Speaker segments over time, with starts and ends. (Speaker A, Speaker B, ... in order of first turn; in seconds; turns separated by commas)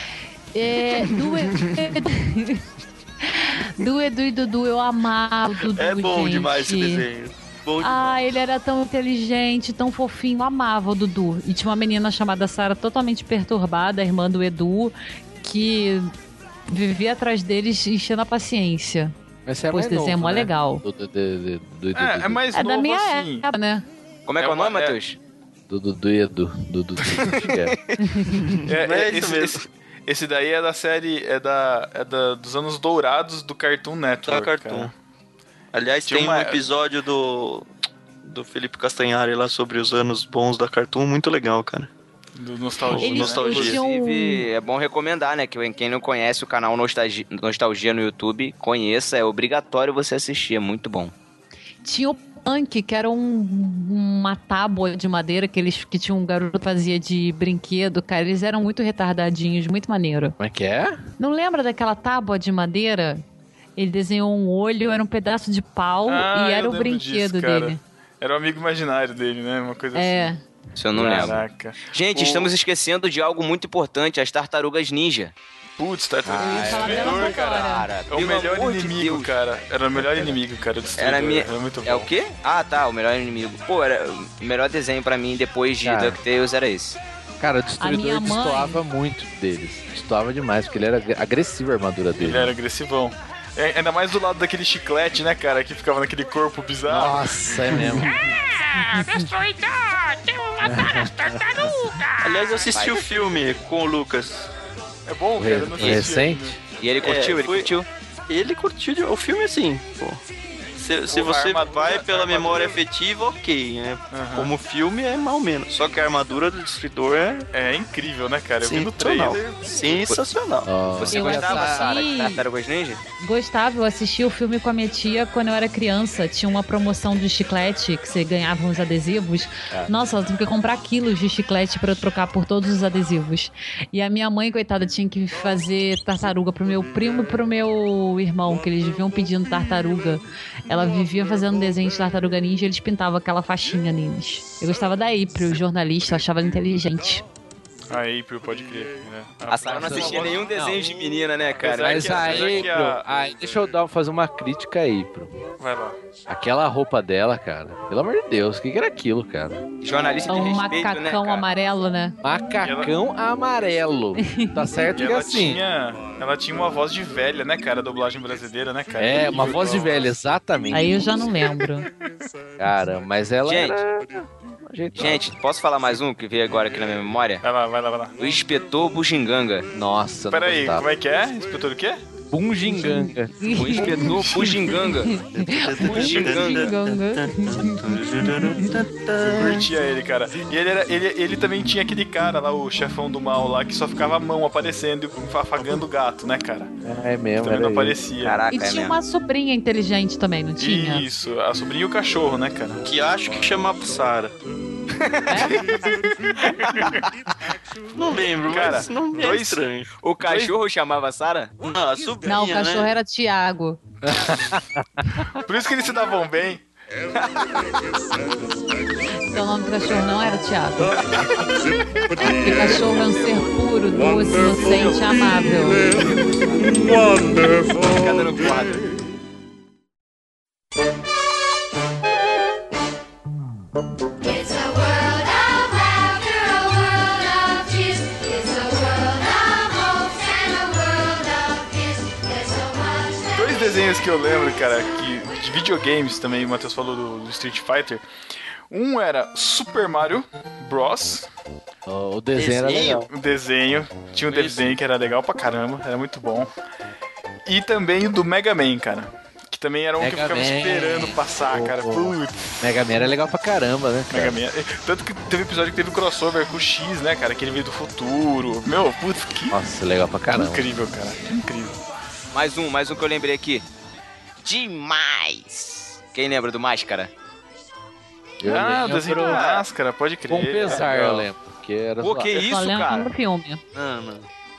Speaker A: 0.5-2.6, Speaker B: 0.9-1.9, Speaker A: 3.2-7.0, Speaker B: 5.6-8.2, Speaker A: 7.8-16.1, Speaker A: 16.7-19.1, Speaker C: 19.4-22.4, Speaker A: 19.7-20.8, Speaker D: 21.9-23.5, Speaker A: 22.5-23.9, Speaker E: 24.2-25.2, Speaker D: 24.4-25.0, Speaker C: 25.7-27.8, Speaker E: 27.3-28.0, Speaker A: 28.0-28.4, Speaker B: 28.3-29.6, Speaker D: 28.7-34.9, Speaker B: 34.2-34.9, Speaker B: 35.7-37.7, Speaker D: 36.0-36.6, Speaker B: 38.2-41.9, Speaker D: 42.4-43.8, Speaker B: 42.8-43.8, Speaker A: 42.9-44.5, Speaker E: 43.6-51.1, Speaker A: 51.8-60.3, Speaker C: 60.4-61.1, Speaker A: 61.2-63.2, Speaker A: 63.8-67.8, Speaker D: 66.0-70.3, Speaker A: 69.9-70.4, Speaker E: 70.8-71.4, Speaker D: 70.9-72.5, Speaker E: 71.9-75.3, Speaker D: 75.8-82.1, Speaker C: 76.2-77.3, Speaker A: 76.3-77.9, Speaker E: 77.1-79.3, Speaker E: 81.0-87.0, Speaker C: 85.8-86.2, Speaker C: 87.4-92.5, Speaker A: 87.8-88.8, Speaker D: 92.2-97.3, Speaker C: 96.9-98.2, Speaker A: 98.9-99.2, Speaker E: 99.2-100.1, Speaker C: 100.6-101.7, Speaker E: 102.2-103.3, Speaker B: 102.2-104.5, Speaker D: 105.0-106.6, Speaker C: 105.4-106.6, Speaker E: 106.8-107.9, Speaker B: 107.0-107.7, Speaker B: 108.3-110.2, Speaker B: 110.8-117.5, Speaker D: 111.1-112.8, Speaker D: 114.1-114.5, Speaker D: 117.5-119.4, Speaker B: 118.6-120.7, Speaker C: 120.6-122.0, Speaker E: 120.9-123.0, Speaker A: 121.1-122.4, Speaker A: 123.2-147.2, Speaker D: 147.9-150.4, Speaker E: 149.5-152.7, Speaker C: 149.7-150.8, Speaker D: 151.6-153.0, Speaker C: 151.7-155.4, Speaker D: 155.6-156.0, Speaker C: 156.3-159.6, Speaker E: 159.8-161.4, Speaker A: 160.3-162.2, Speaker C: 162.2-165.6, Speaker D: 162.6-162.9, Speaker A: 164.2-164.6, Speaker D: 164.9-170.1, Speaker C: 169.0-171.3, Speaker A: 170.7-171.9, Speaker C: 172.6-175.3, Speaker E: 173.4-173.8, Speaker E: 174.9-177.4, Speaker D: 177.4-178.2, Speaker E: 178.2-179.7, Speaker C: 179.7-180.8, Speaker D: 180.3-182.0, Speaker C: 182.3-183.4, Speaker A: 182.7-184.5, Speaker E: 183.5-185.2, Speaker B: 184.4-184.8, Speaker A: 185.0-188.7, Speaker B: 185.3-189.7, Speaker E: 185.8-186.7, Speaker D: 189.2-196.7, Speaker C: 196.8-198.0, Speaker D: 197.4-198.4, Speaker E: 198.2-199.0, Speaker A: 198.5-201.1, Speaker D: 200.6-202.8, Speaker B: 202.8-204.3, Speaker E: 204.9-205.8, Speaker A: 205.3-205.9, Speaker E: 206.4-206.9, Speaker D: 206.7-207.1, Speaker B: 207.9-210.3, Speaker D: 208.4-209.6, Speaker E: 210.0-211.5, Speaker B: 211.6-212.9, Speaker A: 212.2-213.8, Speaker C: 214.0-215.2, Speaker D: 215.3-216.6, Speaker E: 217.1-217.7, Speaker A: 219.2-221.0, Speaker A: 222.2-225.8, Speaker E: 222.6-223.5, Speaker E: 224.5-225.2, Speaker E: 225.8-226.7, Speaker E: 227.8-228.9, Speaker F: 234.2-243.8, Speaker D: 243.3-248.0, Speaker D: 248.7-251.3, Speaker C: 251.8-253.1, Speaker B: 252.3-253.1, Speaker D: 253.1-256.5, Speaker B: 254.3-254.7, Speaker D: 257.4-262.6, Speaker C: 260.0-264.3, Speaker D: 264.1-269.6, Speaker C: 269.5-270.7, Speaker D: 270.3-271.8, Speaker E: 272.3-273.6, Speaker E: 274.4-277.1, Speaker C: 278.4-279.4, Speaker D: 278.4-281.3, Speaker E: 278.8-279.6, Speaker C: 280.3-282.4, Speaker E: 282.0-283.1, Speaker A: 282.4-283.6, Speaker B: 283.7-284.3